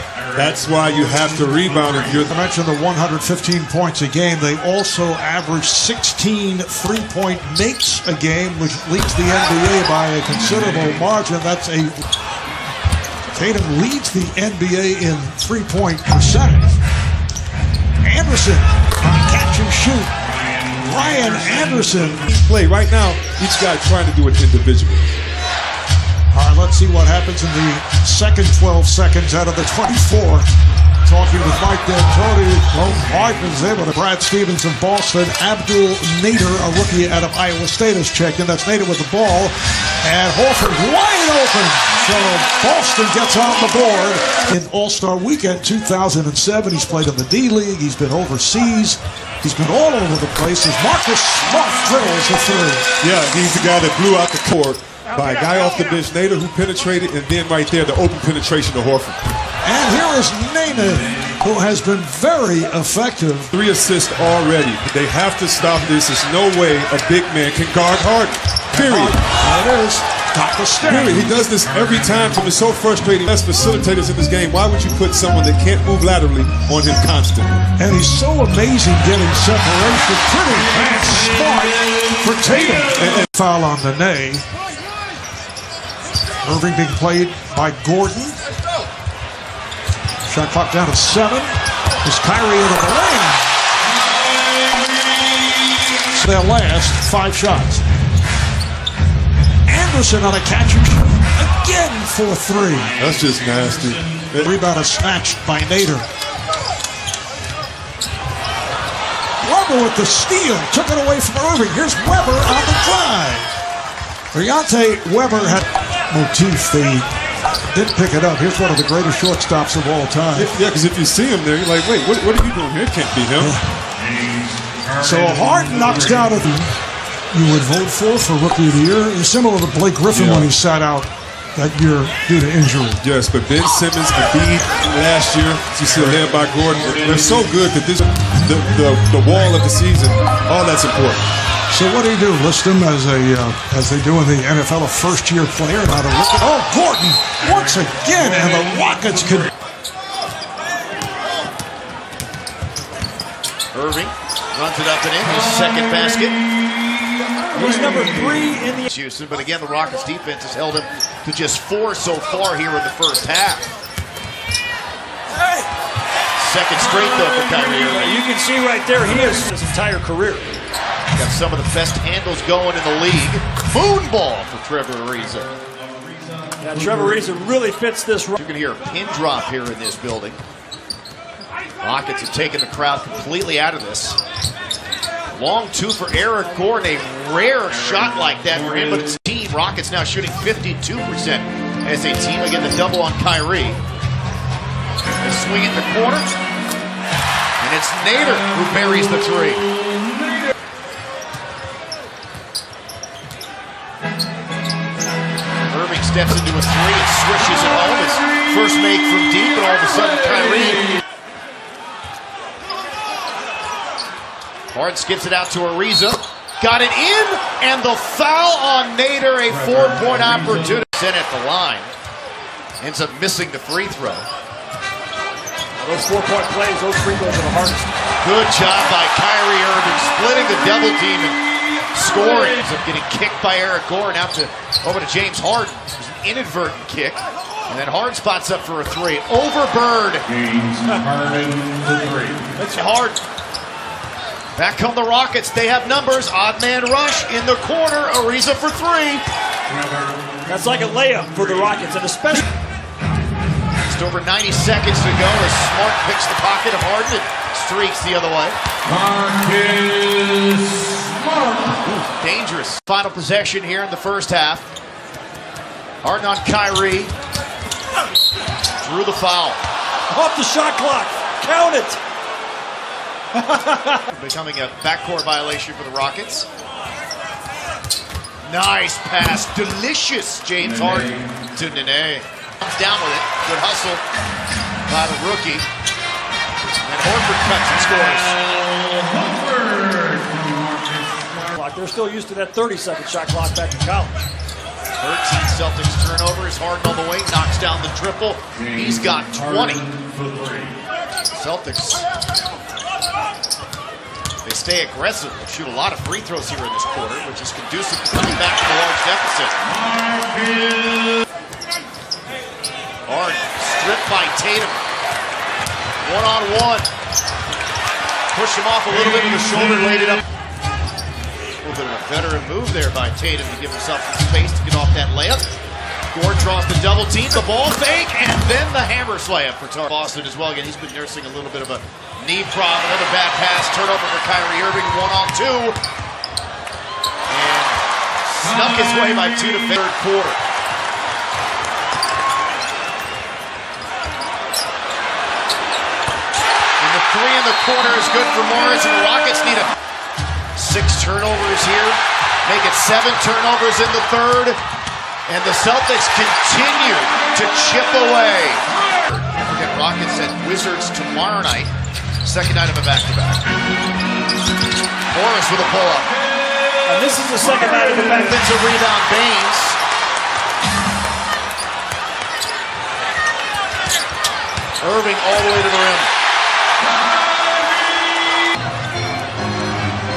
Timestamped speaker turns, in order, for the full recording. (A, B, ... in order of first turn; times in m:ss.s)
0:00.3-0:02.3 A
0:02.3-0:12.0 B
0:13.3-0:16.8 B
0:18.0-0:20.1 B
0:20.7-0:22.3 B
0:22.3-0:25.2 A
0:26.3-0:30.4 B
0:31.0-0:52.8 B
0:53.0-0:59.2 A
0:59.6-1:03.5 B
1:03.5-1:09.2 A
1:08.7-1:11.2 B
1:10.8-1:17.6 A
1:17.8-1:24.4 B
1:23.0-1:23.2 A
1:26.4-1:28.4 B
1:30.3-1:31.5 B
1:32.0-1:33.4 B
1:36.1-1:37.8 B
1:39.6-1:42.9 B
1:43.0-1:44.5 A
1:44.4-1:46.0 B
1:49.4-1:53.5 B
1:54.3-1:57.1 B
1:57.7-2:00.5 B
2:00.4-2:03.5 A
2:05.0-2:06.7 B
2:07.3-2:13.0 B
2:10.1-2:10.5 A
2:13.0-2:21.2 A
2:21.7-2:29.5 B
2:33.7-2:36.4 C
2:37.5-2:38.9 D
2:38.8-2:43.7 C
2:45.4-2:45.7 D
2:46.4-2:48.2 C
2:47.9-2:50.5 D
2:51.2-2:55.5 C
2:56.6-2:58.4 D
2:58.4-3:00.4 C
3:01.8-3:04.2 C
3:05.3-3:13.8 C
3:15.2-3:16.4 C
3:17.6-3:19.6 C
3:25.7-3:30.8 C
3:34.7-3:41.9 C
3:42.8-3:44.3 C
3:45.8-3:47.9 D
3:48.2-3:51.4 C
3:51.9-4:00.2 C
4:00.7-4:02.9 D
4:02.7-4:03.2 C
4:04.5-4:09.2 C
4:10.5-4:12.4 D
4:13.9-4:18.6 C
4:21.7-4:24.7 C
4:26.0-4:27.1 C
4:28.8-4:29.6 C
4:30.1-4:32.0 D
4:33.3-4:34.1 D
4:34.1-4:36.5 C
4:38.4-4:44.0 C
4:44.9-4:45.7 C
4:46.8-4:48.4 C
4:51.4-4:54.1 D
4:55.0-4:59.9 C
5:01.3-5:02.0 C
5:04.4-5:09.6 C
5:13.1-5:14.8 C
5:16.0-5:16.9 C
5:18.3-5:20.2 C
5:21.6-5:25.5 C
5:26.1-5:35.8 C
5:37.3-5:40.4 C
5:46.8-5:49.7 C
5:50.6-5:54.6 C
5:55.3-6:01.7 C
6:02.2-6:03.4 C
6:05.1-6:06.1 C
6:06.8-6:08.4 D
6:07.9-6:09.8 C
6:14.8-6:16.1 C